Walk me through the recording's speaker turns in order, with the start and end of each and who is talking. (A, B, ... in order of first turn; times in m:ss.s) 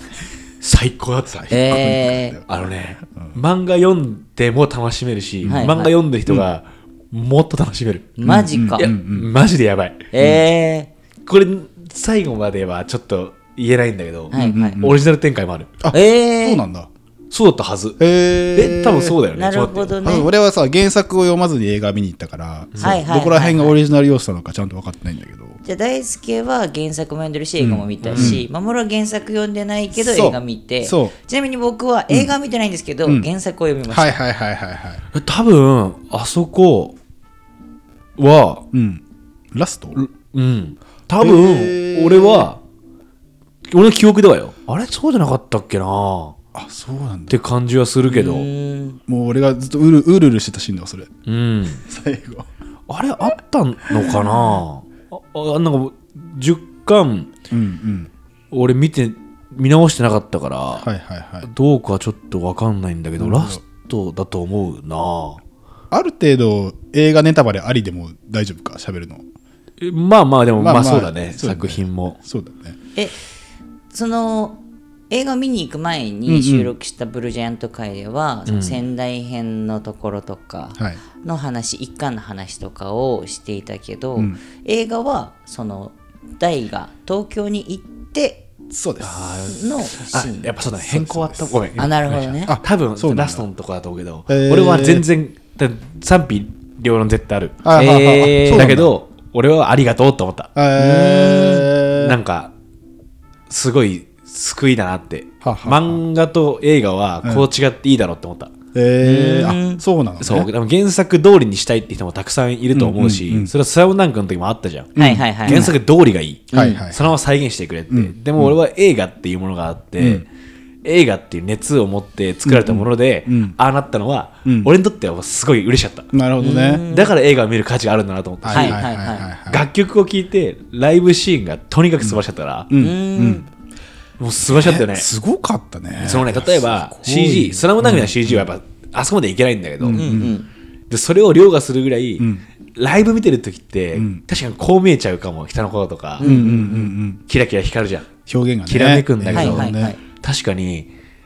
0:00.6-0:01.5 A
0:01.3-0:03.4 B
0:01.5-0:02.4 C
0:02.5-0:08.2 A
0:05.4-0:05.7 B
0:05.5-0:05.9 C
0:08.2-0:08.9 C
0:08.2-0:09.3 B
0:08.8-0:10.1 A
0:10.1-0:10.9 C
0:11.2-0:15.7 A
0:14.3-0:14.9 C
0:14.3-0:15.0 B
0:15.8-0:16.9 B
0:15.9-0:16.6 C
0:17.3-0:18.0 A
0:18.0-0:19.2 B
0:18.5-0:19.9 A
0:19.3-0:20.3 C
0:20.0-0:25.6 B
0:22.7-0:23.0 A
0:22.8-0:23.8 C
0:25.6-0:34.2 C
0:27.6-0:28.4 B
0:28.0-0:28.4 A
0:29.9-0:31.1 B
0:33.9-0:35.0 B
0:35.1-0:36.9 A
0:38.2-0:38.6 A
0:38.7-0:40.0 B
0:40.0-0:42.6 A
0:41.2-0:42.5 B
0:43.7-0:46.4 A
0:46.5-0:47.4 B
0:47.3-0:48.5 A
0:48.1-0:49.0 C
0:49.1-0:51.1 B
0:51.2-0:51.8 A
0:51.8-0:52.5 B
0:52.9-0:57.3 A
0:53.9-0:54.6 B
0:57.5-0:58.1 B
0:58.5-1:00.9 A
1:00.8-1:01.5 B
1:01.4-1:05.4 A
1:03.2-1:03.6 B
1:05.9-1:09.2 B
1:09.8-1:12.2 A
1:10.6-1:12.8 B
1:13.9-1:28.5 C
1:16.3-1:16.7 B
1:18.5-1:18.8 A
1:28.7-1:29.5 B
1:29.0-1:37.6 A
1:29.4-1:30.4 C
1:30.4-1:31.6 B
1:31.8-1:32.6 C
1:32.4-1:33.4 B
1:34.3-1:35.1 B
1:37.6-1:38.9 B
1:37.7-1:38.7 C
1:38.4-1:40.5 A
1:40.5-1:42.2 B
1:40.8-1:41.7 C
1:42.0-1:42.5 A
1:43.5-1:48.5 A
1:45.4-1:46.0 B
1:48.7-1:50.5 B
1:49.0-1:49.8 C
1:50.2-2:00.3 A
1:52.7-1:53.5 B
1:55.0-1:55.7 B
1:55.0-1:55.7 C
1:56.5-1:56.8 C
1:56.5-1:57.2 B
1:57.9-1:58.6 B
2:00.0-2:00.2 B
2:00.8-2:06.1 A
2:02.4-2:03.6 B
2:04.4-2:04.7 B
2:06.1-2:06.8 B
2:06.4-2:07.1 C
2:06.9-2:08.8 A
2:08.4-2:09.6 B
2:08.5-2:09.3 C
2:09.5-2:12.7 A
2:12.0-2:13.4 B
2:12.8-2:13.4 C
2:14.2-2:15.1 A
2:14.5-2:18.5 B
2:16.0-2:20.3 A
2:19.8-2:20.3 B
2:19.9-2:20.5 C
2:20.9-2:26.3 A
2:22.2-2:22.4 B
2:23.9-2:24.2 B
2:26.2-2:26.9 C
2:26.2-2:27.2 B
2:27.3-2:28.1 A
2:28.3-2:29.9 B
2:28.7-2:30.9 A
2:29.3-2:30.0 C